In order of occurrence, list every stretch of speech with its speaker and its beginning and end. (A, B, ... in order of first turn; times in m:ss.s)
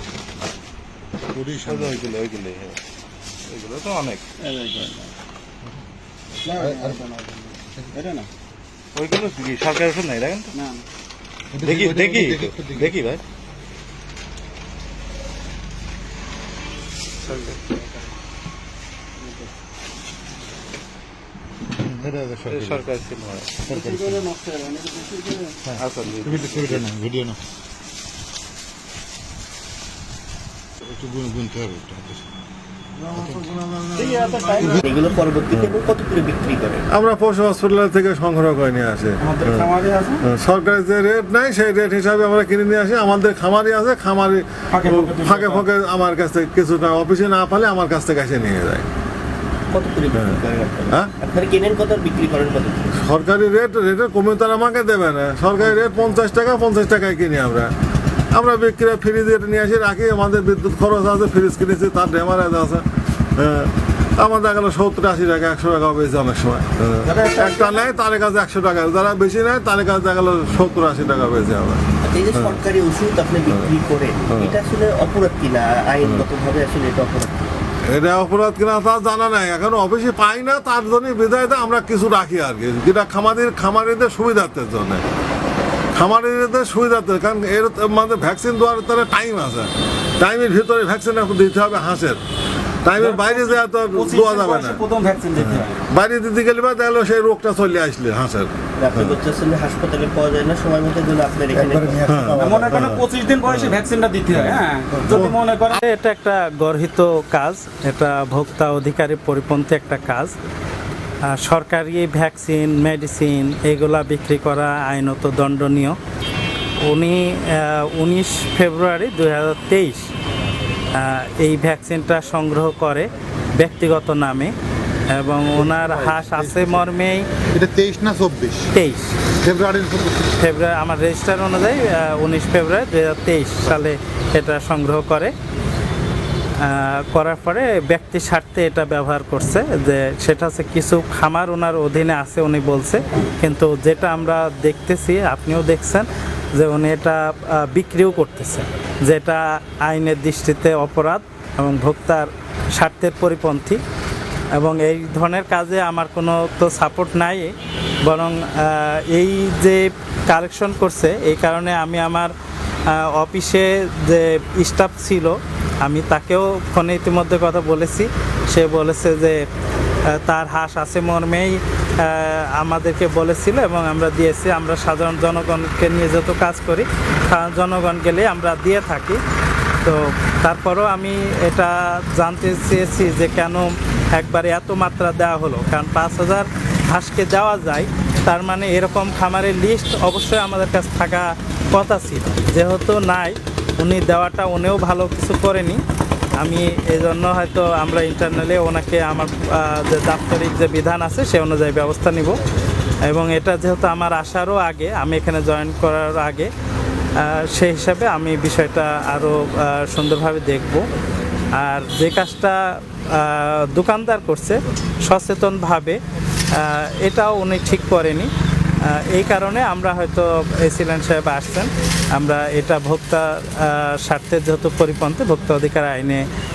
0:01.3-0:02.0 A
0:01.6-0:02.8 B
0:03.4-0:04.2 B
0:04.4-0:05.1 C
0:06.4-0:08.3 C
0:06.5-0:07.0 A
0:08.9-0:10.6 B
0:10.5-0:10.8 C
0:11.5-0:13.1 A
0:11.6-0:13.2 B
0:17.2-0:17.6 B
0:21.8-0:22.9 A
0:22.5-0:23.7 B
0:23.6-0:24.3 A
0:23.7-0:25.6 C
0:25.6-0:27.4 A
0:25.7-0:26.8 B
0:30.8-0:32.2 A
0:33.0-0:34.8 D
0:33.1-0:33.4 A
0:34.0-0:34.7 C
0:34.8-0:36.8 E
0:36.9-0:39.7 D
0:39.2-0:40.2 C
0:40.2-0:48.9 D
0:44.7-0:45.5 C
0:49.7-0:52.9 E
0:52.9-0:57.7 D
0:58.3-1:02.8 D
1:03.4-1:12.6 D
1:12.0-1:17.4 E
1:17.9-1:25.0 D
1:25.9-1:32.2 D
1:32.8-1:34.8 D
1:33.0-1:33.3 C
1:33.9-1:35.7 C
1:35.4-1:39.2 D
1:38.8-1:42.1 E
1:41.5-1:43.0 A
1:42.0-1:43.8 D
1:42.4-1:45.8 C
1:44.3-1:45.4 D
1:45.7-1:50.3 F
1:51.2-1:56.0 F
1:56.8-2:00.1 F
2:00.9-2:04.5 F
2:05.1-2:07.3 F
2:05.5-2:06.9 A
2:07.5-2:08.7 A
2:08.7-2:09.1 F
2:09.4-2:10.3 A
2:10.4-2:15.3 F
2:16.6-2:33.8 F
2:34.5-2:42.3 F
2:42.9-2:49.4 F
2:50.1-2:59.2 F
2:59.8-3:15.8 F
3:16.4-3:22.4 F
3:23.0-3:26.5 F
3:27.2-3:30.8 F
3:31.6-3:36.0 F
3:36.5-3:38.3 F
3:38.8-3:46.2 F